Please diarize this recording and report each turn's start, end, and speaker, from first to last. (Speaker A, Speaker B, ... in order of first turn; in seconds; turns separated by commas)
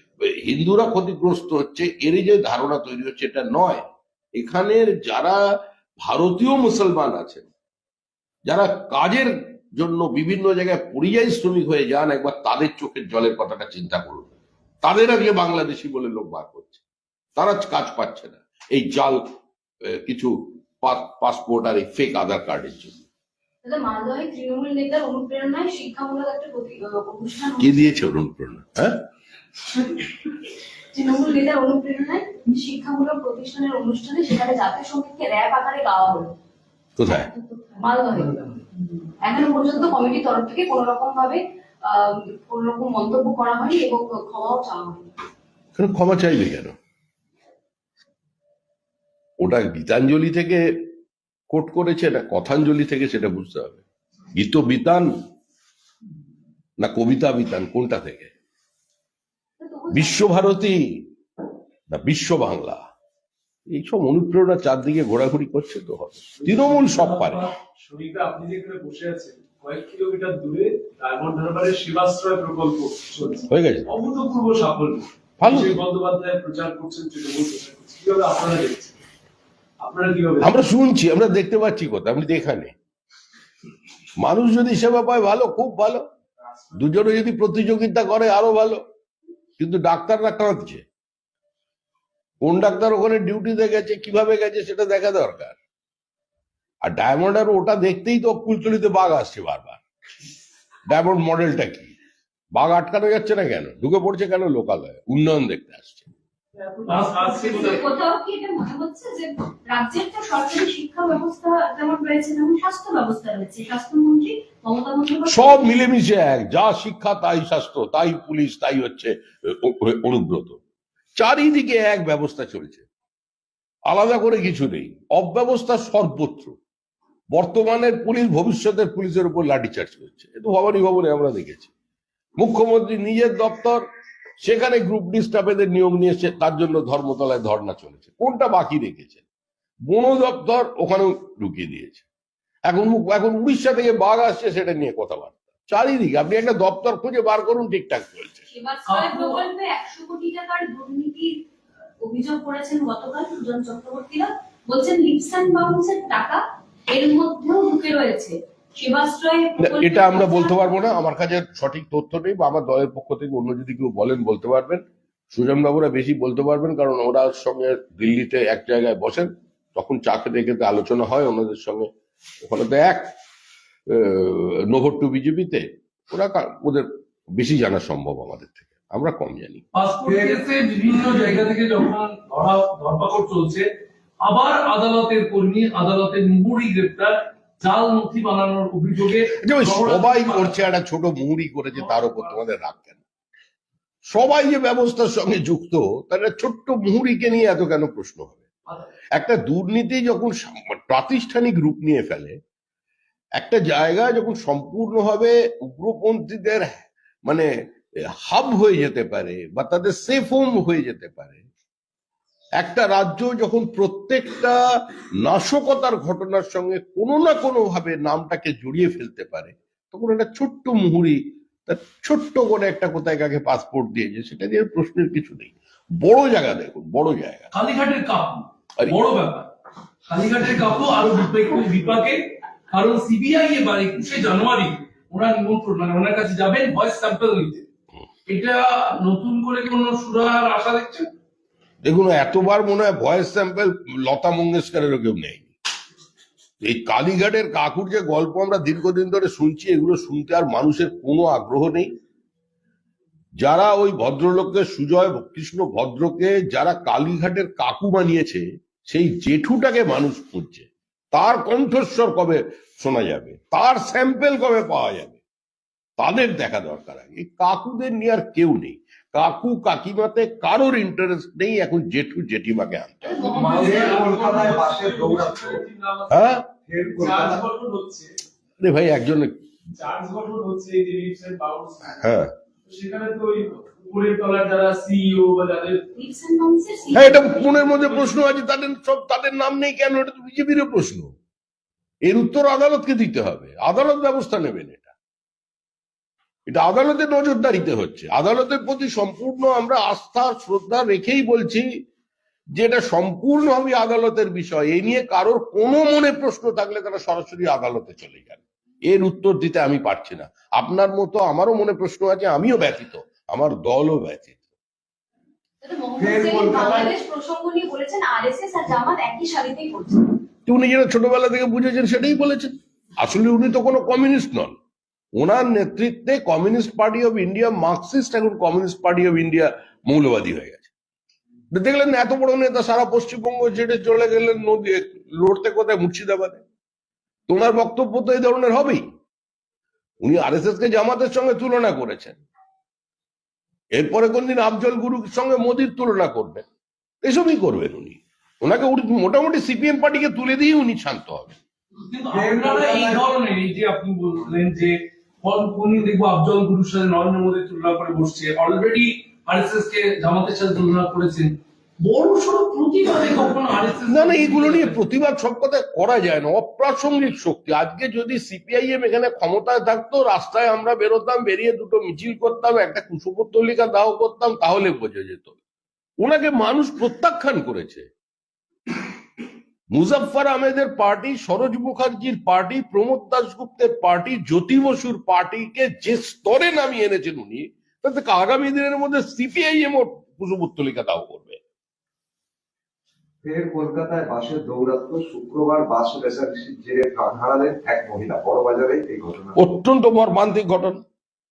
Speaker A: 0.2-3.9, Speaker A: 4.4-5.4, Speaker A: 6.0-7.5, Speaker A: 8.4-16.8, Speaker A: 17.4-19.3, Speaker A: 19.8-23.0, Speaker B: 23.6-27.8, Speaker A: 27.6-29.0, Speaker B: 29.7-30.3, Speaker B: 30.9-36.3, Speaker A: 37.0-37.3, Speaker B: 37.2-45.1, Speaker A: 45.8-46.8, Speaker A: 49.4-50.6, Speaker A: 51.5-53.8, Speaker A: 54.3-55.1, Speaker A: 56.8-58.3, Speaker B: 59.6-60.4, Speaker A: 59.9-61.1, Speaker A: 61.9-62.9, Speaker A: 63.7-67.5, Speaker C: 66.4-66.8, Speaker D: 66.7-67.5, Speaker C: 67.8-79.0, Speaker A: 73.5-73.9, Speaker A: 75.4-75.8, Speaker C: 79.8-80.6, Speaker A: 80.4-82.7, Speaker A: 84.2-86.1, Speaker C: 86.6-86.8, Speaker A: 86.8-88.8, Speaker A: 89.6-90.8, Speaker A: 92.4-95.6, Speaker A: 96.8-99.8, Speaker A: 100.9-101.9, Speaker A: 102.5-106.1, Speaker D: 106.9-107.9, Speaker B: 107.2-115.7, Speaker A: 115.3-120.6, Speaker A: 121.2-122.8, Speaker A: 123.9-126.6, Speaker A: 127.3-131.7, Speaker A: 132.4-133.8, Speaker A: 134.4-139.2, Speaker A: 139.9-142.0, Speaker A: 142.7-148.4, Speaker B: 148.5-151.4, Speaker D: 148.9-149.4, Speaker B: 152.0-160.7, Speaker A: 159.6-171.9, Speaker A: 172.4-173.1, Speaker A: 173.9-179.6, Speaker D: 179.7-183.7, Speaker E: 180.1-180.4, Speaker D: 184.2-190.6, Speaker A: 189.4-193.0, Speaker D: 191.8-192.4, Speaker A: 194.1-198.4, Speaker A: 199.1-202.4, Speaker A: 203.4-207.5, Speaker A: 208.1-211.4, Speaker A: 212.6-214.6, Speaker A: 215.2-227.5, Speaker D: 227.5-229.5, Speaker D: 230.1-237.7, Speaker D: 238.3-241.1, Speaker A: 241.8-245.5, Speaker A: 246.6-251.9, Speaker A: 253.4-265.2, Speaker A: 266.0-273.2, Speaker C: 273.2-276.4, Speaker D: 273.2-274.7, Speaker E: 273.6-275.6, Speaker A: 276.1-276.4, Speaker E: 276.7-277.4, Speaker C: 277.0-278.1, Speaker A: 278.6-279.4, Speaker C: 279.7-282.0, Speaker A: 282.0-282.3, Speaker C: 282.6-285.9, Speaker B: 286.0-287.4, Speaker A: 286.9-291.1, Speaker C: 287.6-288.2, Speaker A: 292.0-294.9, Speaker A: 296.5-301.7, Speaker A: 302.6-314.4, Speaker B: 315.6-320.1, Speaker E: 316.0-317.0, Speaker A: 320.5-324.6, Speaker A: 325.2-330.7, Speaker A: 331.5-336.4, Speaker A: 337.3-338.9, Speaker A: 340.0-342.2, Speaker A: 343.7-346.4, Speaker A: 347.0-351.4, Speaker D: 351.9-364.8, Speaker E: 352.1-353.1, Speaker A: 363.9-375.4, Speaker A: 376.0-377.9, Speaker A: 379.7-391.4, Speaker E: 393.2-399.4, Speaker A: 399.4-400.8